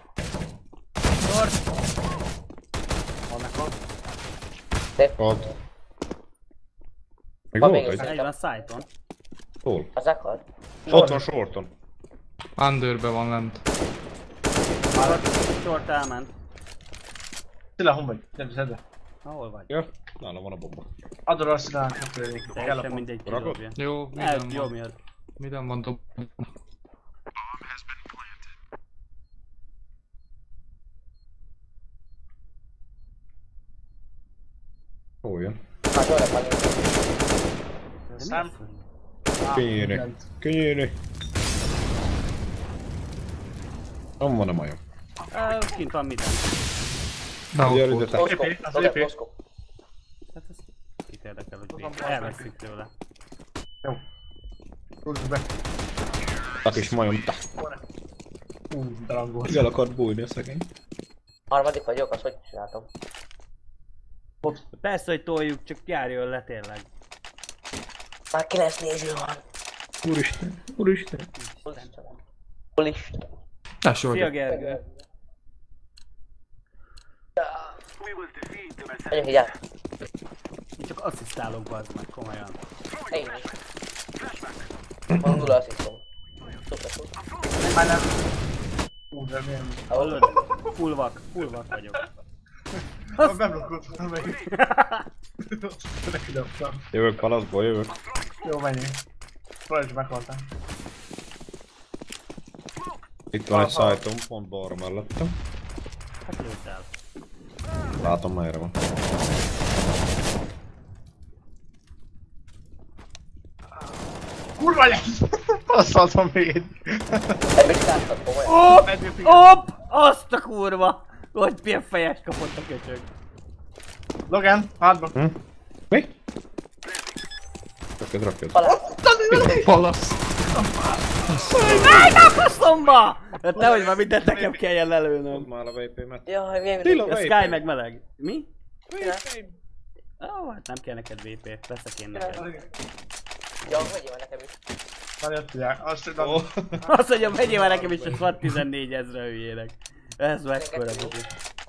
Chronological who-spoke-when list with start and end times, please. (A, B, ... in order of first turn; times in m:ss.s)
0:03.3-0:03.8 A
0:05.0-0:05.4 B
0:05.2-0:05.5 C
0:07.5-0:08.1 C
0:07.6-0:08.3 B
0:08.0-0:08.9 D
0:09.6-0:09.9 C
0:10.0-0:10.4 B
0:10.9-0:11.7 C
0:10.9-0:11.2 A
0:12.6-0:13.6 E
0:14.9-0:15.2 A
0:15.0-0:16.3 D
0:17.8-0:18.8 A
0:19.2-0:19.7 D
0:19.7-0:20.9 C
0:21.3-0:23.1 A
0:22.5-0:25.0 D
0:23.3-0:23.6 C
0:23.8-0:24.7 E
0:25.4-0:26.5 E
0:35.2-0:35.6 C
0:35.9-0:37.0 B
0:38.1-0:38.5 A
0:38.2-0:38.8 D
0:39.4-0:40.3 A
0:39.5-0:41.0 C
0:44.2-0:44.8 C
0:45.3-0:46.5 D
0:47.5-0:48.2 E
0:47.6-0:48.4 C
0:48.2-0:49.3 B
0:48.2-0:49.1 A
0:50.3-0:52.9 D
0:51.7-0:52.5 A
0:55.0-0:55.5 A
0:56.6-0:57.4 C
0:58.7-0:59.6 A
0:59.5-1:00.7 C
1:01.5-1:02.9 B
1:04.8-1:06.9 D
1:08.3-1:09.4 B
1:10.0-1:11.3 C
1:11.4-1:12.0 D
1:11.7-1:12.2 B
1:12.8-1:13.2 B
1:13.8-1:14.3 E
1:14.1-1:14.8 D
1:17.4-1:17.7 B
1:19.1-1:19.6 B
1:20.8-1:22.6 D
1:23.1-1:23.5 B
1:25.1-1:25.5 C
1:25.2-1:26.0 B
1:26.7-1:27.1 B
1:27.6-1:28.2 A
1:29.1-1:30.7 A
1:29.9-1:30.4 B
1:29.9-1:32.0 D
1:32.8-1:34.4 A
1:33.2-1:33.5 D
1:34.4-1:35.1 D
1:35.4-1:36.9 A
1:36.9-1:38.0 C
1:38.4-1:39.0 A
1:39.7-1:40.4 A
1:43.3-1:45.4 C
1:43.5-1:44.0 A
1:46.3-1:46.9 D
1:48.0-1:48.8 C
1:54.6-1:57.5 A
1:57.6-1:58.7 B
1:58.5-1:59.5 A
1:59.2-2:03.1 D
2:04.3-2:05.2 A
2:08.0-2:08.8 C
2:08.6-2:09.8 B
2:09.1-2:09.4 A
2:09.3-2:09.7 C
2:09.6-2:10.2 E
2:10.5-2:11.8 A
2:11.3-2:11.6 E
2:11.6-2:15.5 D
2:11.6-2:12.2 C
2:13.6-2:14.5 A
2:15.3-2:16.3 C
2:16.3-2:17.1 B
2:16.8-2:17.6 C
2:17.0-2:18.5 D
2:18.9-2:19.5 A
2:20.2-2:22.5 D
2:22.1-2:22.5 B
2:22.4-2:22.7 A
2:23.6-2:23.9 D
2:23.7-2:24.6 B
2:25.2-2:26.9 A
2:26.8-2:31.3 D
2:30.5-2:31.2 B